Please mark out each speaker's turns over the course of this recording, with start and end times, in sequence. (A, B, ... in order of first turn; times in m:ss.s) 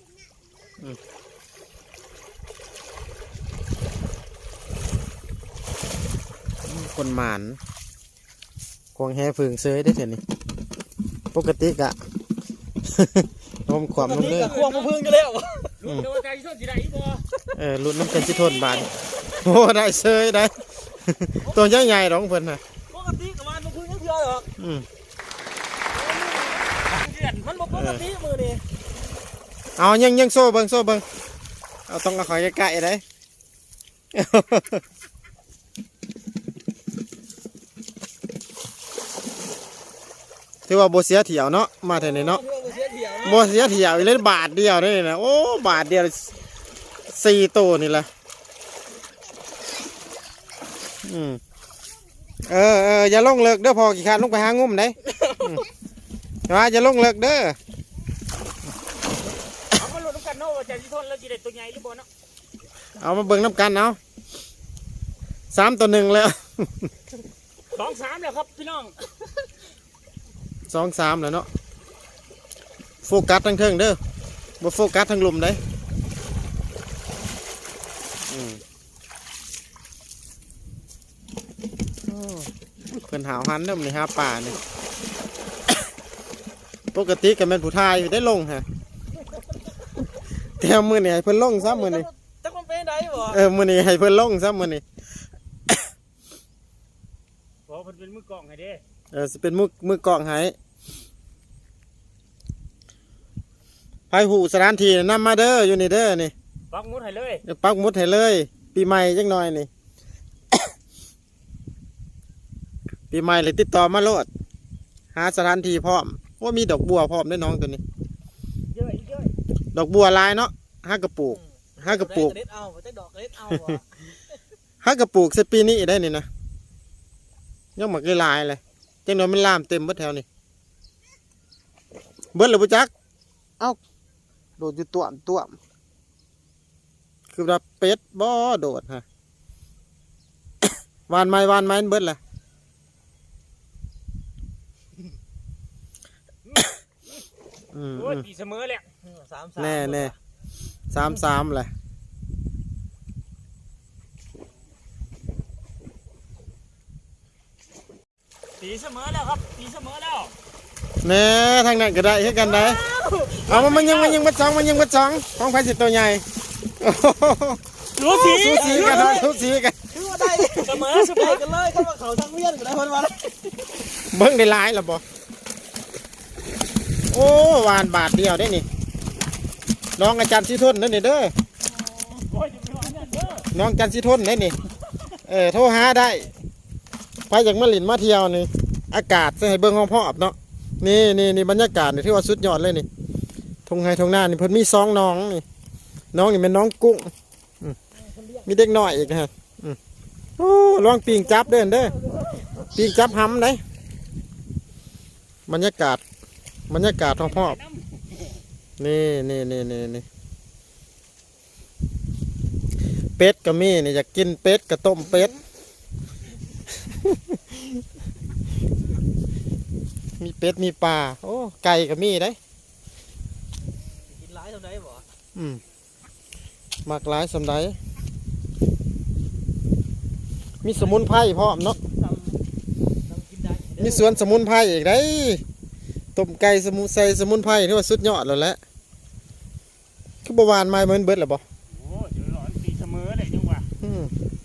0:06.7-0:07.6 A
0:09.0-0:10.2 A
0:11.3-0:12.0 A
0:12.8-0:14.5 A
0:14.0-0:15.8 B
0:14.2-0:14.9 C
0:15.8-0:17.2 C
0:17.6-0:22.6 A
0:21.4-0:22.0 B
0:22.9-0:24.5 B
0:24.6-0:24.9 A
0:25.9-0:28.6 B
0:26.8-0:27.5 C
0:27.7-0:28.0 A
0:29.8-0:31.0 A
0:31.9-0:33.0 A
0:34.1-0:34.8 A
0:40.7-0:42.4 A
0:41.9-0:43.5 B
0:43.2-0:46.4 A
0:47.1-0:48.1 A
0:51.0-0:51.4 A
0:52.4-0:55.7 A
0:56.5-0:57.6 A
0:59.7-1:02.1 C
1:03.0-1:04.0 A
1:05.5-1:06.9 A
1:07.7-1:09.3 C
1:10.7-1:11.5 A
1:13.0-1:14.0 A
1:14.6-1:15.6 A
1:18.3-1:18.6 A
1:22.1-1:24.6 A
1:26.9-1:28.7 A
1:30.6-1:32.1 A
1:31.6-1:33.4 B
1:33.3-1:34.8 A
1:37.7-1:38.8 C
1:39.1-1:40.6 A
1:44.1-1:46.3 A
1:46.7-1:47.4 C
1:47.4-1:49.7 A
1:53.1-1:54.3 A
1:55.1-1:57.8 A
1:58.7-1:59.3 C
1:59.7-2:02.4 A
2:01.3-2:04.0 B
2:03.5-2:03.8 A
2:04.8-2:06.3 A
2:07.8-2:10.2 A
2:12.3-2:12.9 A
2:14.6-2:15.6 A
2:17.3-2:19.0 A
2:21.1-2:22.2 A
2:27.7-2:28.3 A
2:28.0-2:28.9 C
2:29.0-2:30.1 B
2:29.6-2:30.1 A
2:30.9-2:31.7 A
2:38.6-2:40.3 C
2:41.0-2:42.8 A
2:42.4-2:43.3 B
2:43.3-2:44.2 C
2:43.5-2:46.2 A
2:46.8-2:49.8 A
2:47.9-2:49.2 C
2:48.3-2:49.4 B
2:49.9-2:53.4 B
2:50.3-2:50.7 A
2:50.6-2:51.4 C
2:54.0-2:55.0 A
2:57.1-2:58.7 A
3:00.0-3:01.3 A
3:02.0-3:03.5 C
3:03.5-3:04.6 A
3:05.2-3:06.3 A
3:07.3-3:12.9 A
3:13.7-3:15.4 A
3:16.1-3:17.8 A
3:18.4-3:19.8 A
3:20.4-3:21.9 A
3:22.6-3:23.6 A
3:25.5-3:26.0 A
3:26.7-3:27.6 A
3:27.1-3:28.4 C
3:28.8-3:30.0 A
3:33.2-3:35.4 A
3:36.8-3:37.8 A
3:40.2-3:42.4 A
3:44.1-3:45.1 B
3:45.4-3:45.6 A
3:46.9-3:47.8 A
3:50.6-3:51.8 A
3:50.8-3:51.2 C
3:51.9-3:52.4 C
3:53.1-3:54.1 B
3:53.8-3:55.4 A
3:56.1-3:58.6 A
4:00.2-4:01.4 A
4:01.7-4:03.7 C
4:03.8-4:04.1 A